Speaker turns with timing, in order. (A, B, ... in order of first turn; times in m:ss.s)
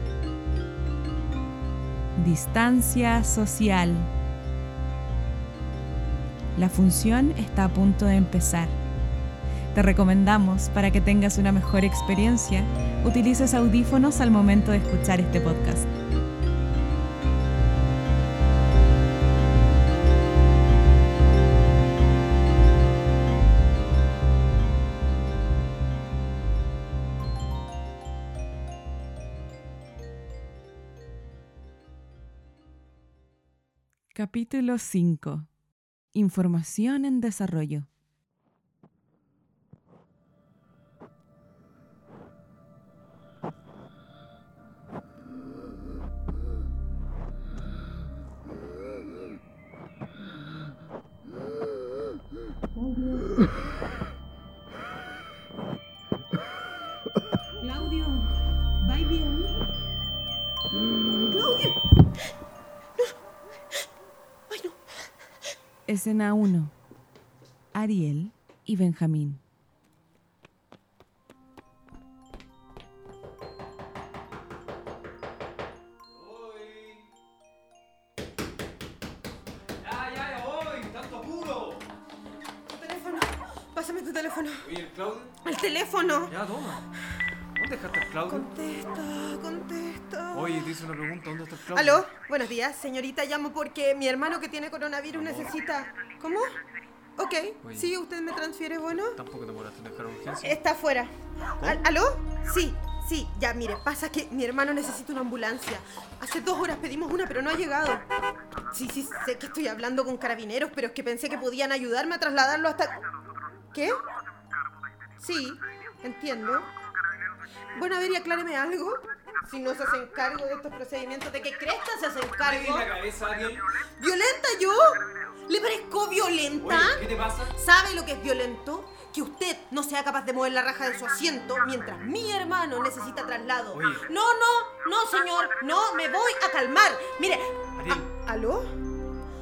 0:02.2-0:04.1 A
0:06.6-0:08.8 A
0:09.7-0:15.9 A
0:34.1-0:35.5 A
0:36.1-0:37.9 A
0:52.8-0:53.3 B
0:57.6-0:58.3 B
0:58.8-0:59.6 B
1:01.3-1:01.8 B
1:04.5-1:04.8 B
1:05.9-1:06.7 A
1:07.7-1:09.4 A
1:16.1-1:17.1 C
1:19.8-1:21.9 C
1:22.7-1:24.7 B
1:24.6-1:25.4 C
1:25.4-1:26.4 B
1:26.3-1:26.8 C
1:27.6-1:28.5 C
1:28.3-1:30.8 B
1:30.3-1:32.1 C
1:31.7-1:36.6 B
1:35.1-1:35.6 C
1:37.2-1:39.2 B
1:37.6-1:37.9 C
1:39.1-1:40.6 C
1:40.4-1:48.0 B
1:41.6-1:41.8 C
1:48.7-1:53.0 B
1:53.7-1:54.0 B
1:55.2-1:56.7 B
1:57.7-2:02.9 B
2:02.4-2:03.6 C
2:04.0-2:18.7 B
2:06.6-2:07.6 C
2:13.7-2:14.1 C
2:17.8-2:18.1 C